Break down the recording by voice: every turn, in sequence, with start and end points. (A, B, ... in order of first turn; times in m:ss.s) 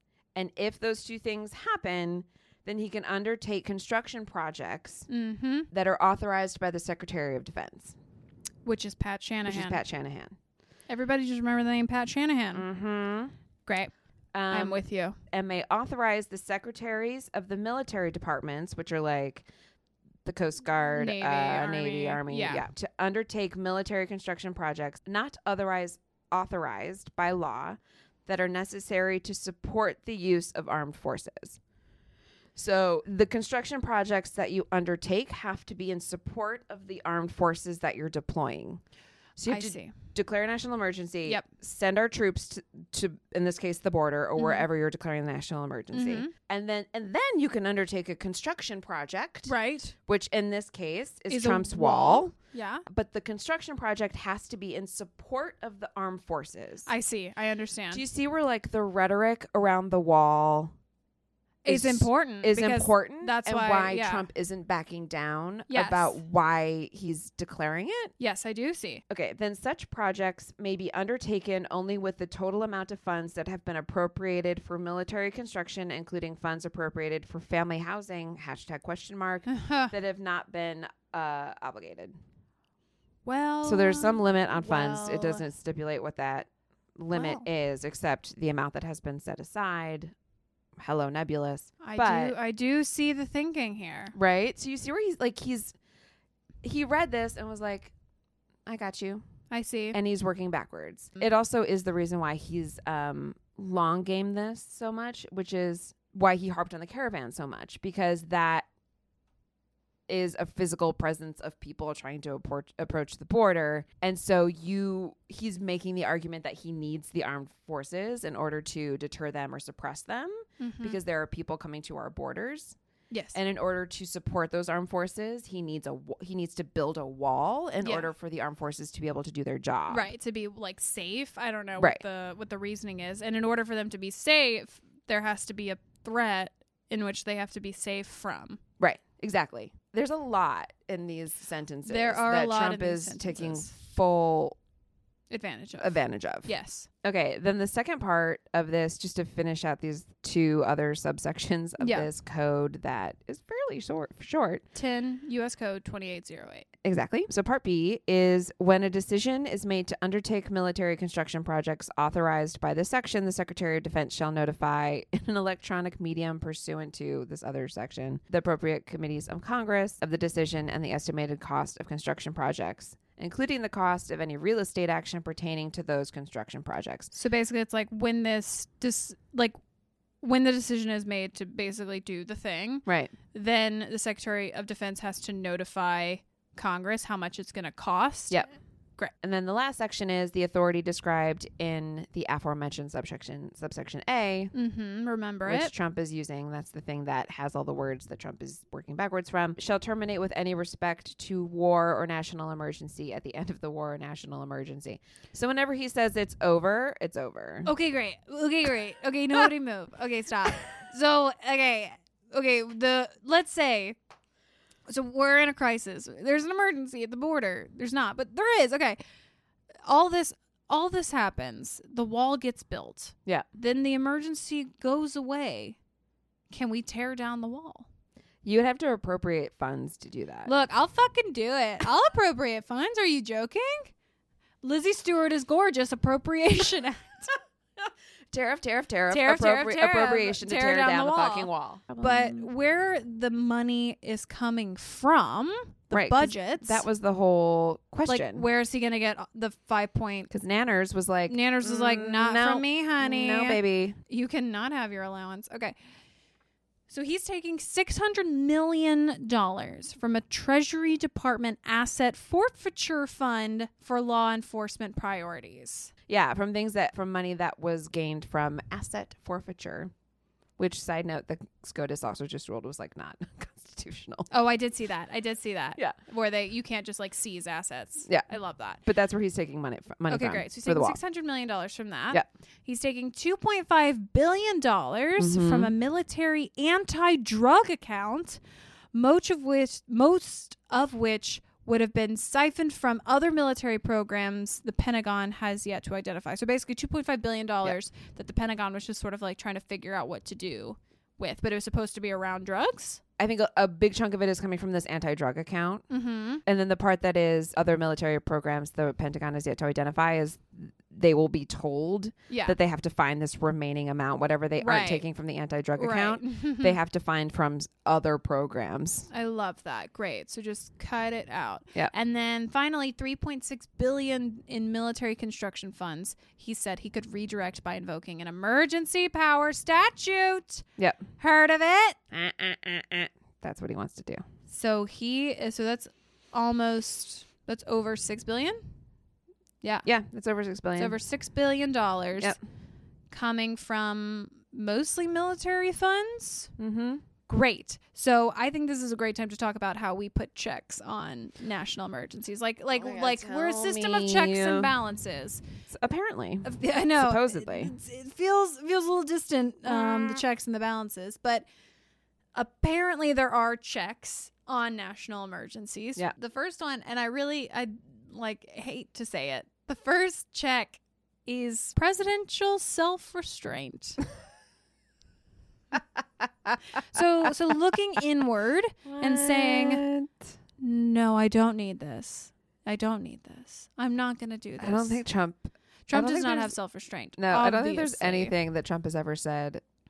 0:00.3-0:05.1 A
0:05.1-0:05.7 B
0:05.7-0:08.0 A
0:08.6-0:09.8 B
0:09.5-0:10.4 A
0:10.9-0:12.6 B
0:12.5-0:13.3 A
0:13.6-0:13.9 B
0:14.3-0:19.4 A
0:14.5-0:15.2 B
0:20.2-0:31.6 A
0:20.9-0:22.6 B
0:32.5-0:38.8 A
0:39.4-0:52.3 A
0:39.5-0:39.9 B
0:44.4-0:44.6 B
0:45.9-0:46.3 B
0:49.4-0:49.9 B
0:51.3-0:52.8 B
0:52.8-0:56.9 A
0:56.8-0:58.0 B
0:57.9-1:00.7 A
1:01.6-1:04.2 B
1:01.6-1:08.1 A
1:05.7-1:06.2 B
1:08.2-1:09.0 B
1:09.1-1:22.1 A
1:19.5-1:19.9 B
1:23.2-1:25.4 B
1:23.6-1:30.1 A
1:27.1-1:27.4 B
1:30.8-1:32.4 A
1:31.8-1:34.1 B
1:34.1-1:35.7 A
1:36.6-1:37.9 A
1:38.6-1:39.2 A
1:39.5-1:40.0 B
1:39.9-1:48.7 A
1:50.1-2:02.8 A
2:00.6-2:01.0 B
2:03.1-2:03.4 B
2:03.3-2:10.1 A
2:07.8-2:08.1 B
2:09.9-2:18.6 B
2:18.8-2:24.6 A
2:21.8-2:23.7 B
2:25.3-2:26.9 B
2:25.8-2:26.5 A
2:27.0-2:34.6 A
2:31.8-2:32.1 B
2:34.7-2:36.6 B
2:36.8-2:57.1 A
2:57.1-2:59.6 B
3:00.2-3:08.4 B
3:02.8-3:03.1 A
3:09.2-3:14.5 A
3:14.5-3:15.7 B
3:15.4-3:27.7 A
3:27.6-3:34.0 B
3:34.9-3:39.0 B
3:39.8-3:45.8 B
3:46.5-3:47.8 B
3:48.4-3:50.5 A
3:50.4-3:53.9 B
3:54.6-3:57.4 B
3:58.3-4:02.5 A
3:59.1-4:06.8 B
4:05.9-4:08.4 A
4:08.0-4:10.3 B
4:10.3-4:14.0 A
4:11.3-4:15.7 B
4:16.9-4:25.9 B
4:26.1-4:29.9 A
4:30.6-4:34.3 A
4:34.3-4:38.8 B
4:38.8-4:41.0 A
4:40.1-4:48.4 B
4:45.2-4:45.7 A
4:48.9-5:03.0 B
5:03.2-5:05.8 A
5:05.9-5:06.4 B
5:06.4-5:19.1 A
5:12.3-5:12.6 B
5:14.6-5:15.0 B
5:15.8-5:16.8 B
5:19.1-5:30.6 B
5:31.2-5:32.0 B
5:32.1-5:34.2 A
5:34.5-5:38.6 B
5:39.8-5:41.0 A
5:40.8-5:42.4 B
5:43.1-5:46.5 B
5:46.6-5:47.0 A
5:47.3-5:55.4 B
5:52.7-5:54.7 A
5:55.7-5:57.7 A
5:56.4-6:01.4 B
5:59.7-6:00.2 A
6:02.3-6:14.0 B
6:16.8-6:19.8 B
6:18.8-6:20.2 A
6:20.6-6:25.0 B
6:24.6-6:26.5 A
6:25.9-6:28.3 B
6:27.2-6:29.6 A